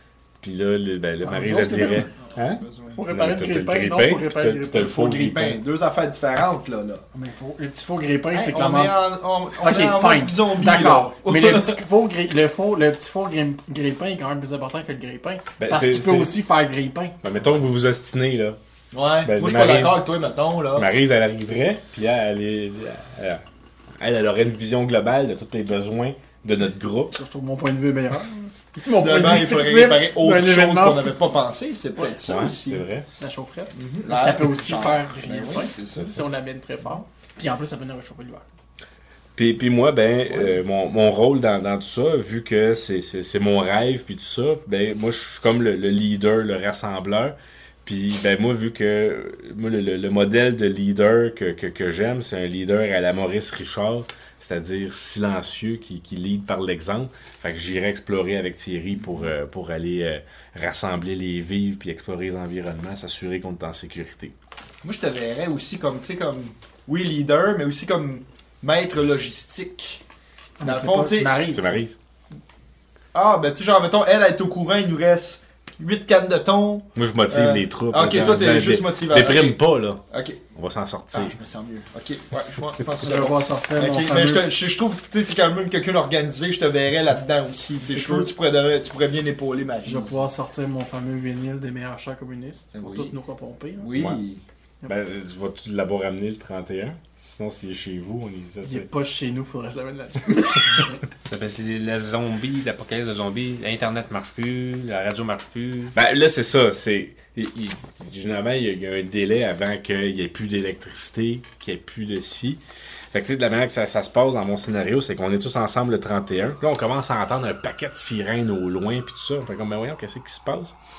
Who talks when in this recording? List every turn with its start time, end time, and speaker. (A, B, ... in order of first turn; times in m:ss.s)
0:00.4-0:05.6 A
0:01.2-0:02.1 B
0:02.4-0:03.0 C
0:02.9-0:04.9 B
0:04.7-0:07.0 C
0:07.1-0:09.0 B
0:08.3-0:11.8 C
0:09.6-0:17.2 B
0:15.6-0:16.4 A
0:17.2-0:18.6 A
0:18.9-0:20.9 C
0:19.2-0:20.0 A
0:20.7-0:23.4 A
0:24.0-0:27.1 A
0:27.1-0:31.3 B
0:28.9-0:32.8 C
0:32.2-0:33.0 A
0:33.2-0:38.4 B
0:33.7-0:36.2 C
0:39.4-1:04.3 A
0:40.3-0:40.6 C
0:58.9-0:59.3 C
1:04.8-1:10.0 C
1:10.6-1:11.8 B
1:10.6-1:11.4 C
1:11.5-1:12.0 A
1:13.1-1:20.4 C
1:16.9-1:20.0 A
1:20.5-1:21.4 A
1:21.1-1:30.2 C
1:23.0-1:24.5 B
1:27.8-1:28.3 B
1:29.8-1:33.9 B
1:32.7-1:33.1 C
1:33.8-1:34.4 C
1:33.9-1:34.2 A
1:34.8-1:38.9 A
1:38.6-1:41.0 B
1:41.2-1:45.9 D
1:45.9-1:52.6 A
1:53.1-2:00.8 A